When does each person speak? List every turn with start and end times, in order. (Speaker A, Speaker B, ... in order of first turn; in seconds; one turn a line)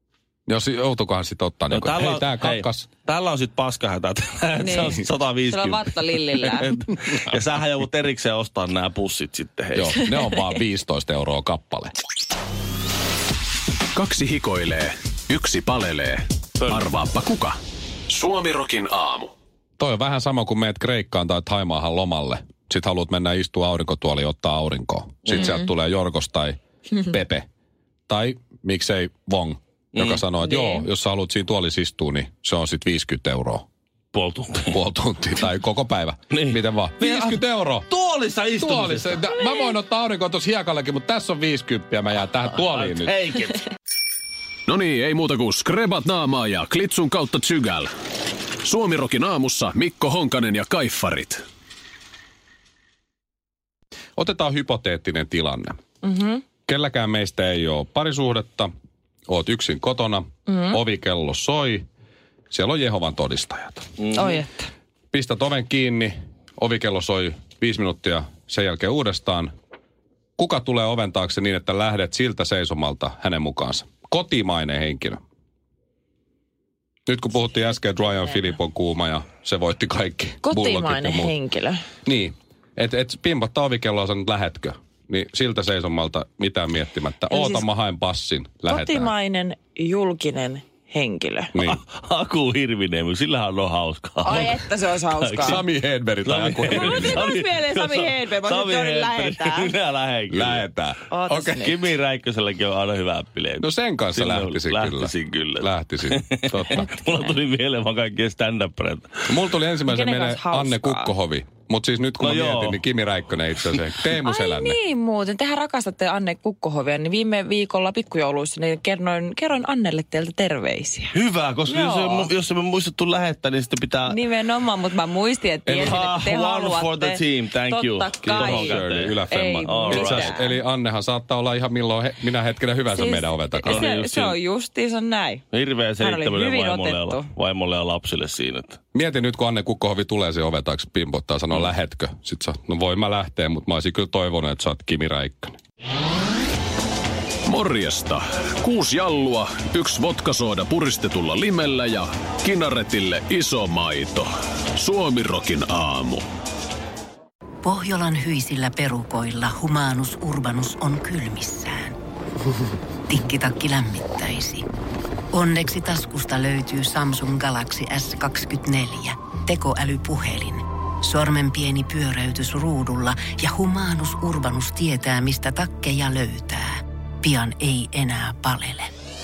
Speaker A: 0.5-2.9
Speaker B: 1.7-9.9
Speaker C: 4.6-6.7
Speaker A: 9.8-11.9
Speaker C: 10.0-10.4
Speaker D: 13.9-17.6
Speaker D: 18.1-19.3
Speaker A: 19.8-27.4
Speaker C: 25.3-25.7
Speaker A: 28.1-33.6
Speaker B: 29.9-30.2
Speaker C: 30.4-30.8
Speaker B: 34.1-34.8
Speaker A: 34.7-37.9
Speaker B: 36.3-39.3
Speaker A: 38.6-43.1
Speaker B: 42.5-43.6
Speaker D: 44.7-47.9
Speaker D: 48.6-51.4
Speaker A: 54.2-55.8
Speaker C: 56.0-56.4
Speaker A: 56.7-58.7
Speaker A: 59.3-61.9
Speaker C: 60.5-60.8
Speaker A: 62.5-63.9
Speaker B: 64.0-64.4
Speaker C: 64.1-64.7
Speaker A: 65.1-69.5
Speaker A: 70.4-75.2
Speaker A: 77.1-81.3
Speaker C: 78.1-78.3
Speaker C: 80.4-81.8
Speaker A: 82.0-89.1
Speaker C: 87.3-87.7
Speaker C: 88.7-91.6
Speaker A: 91.5-91.8
Speaker B: 91.6-95.6
Speaker C: 94.2-95.6
Speaker A: 95.4-97.3
Speaker B: 96.2-100.7
Speaker C: 96.7-99.8
Speaker A: 100.3-101.0
Speaker C: 101.1-101.9
Speaker B: 101.3-109.3
Speaker A: 103.6-106.9
Speaker C: 106.7-107.4
Speaker A: 109.3-114.8
Speaker C: 109.8-111.1
Speaker B: 112.2-112.8
Speaker C: 114.2-121.2
Speaker B: 121.1-124.2
Speaker C: 121.7-122.3
Speaker C: 124.1-130.6
Speaker A: 125.7-126.0
Speaker B: 125.8-130.4
Speaker A: 128.2-133.9
Speaker C: 132.9-135.4
Speaker B: 133.6-134.4
Speaker B: 135.5-138.8
Speaker C: 136.0-137.3
Speaker A: 138.9-145.6
Speaker D: 147.5-156.2
Speaker E: 157.6-161.9
Speaker E: 163.1-164.6
Speaker E: 165.3-178.9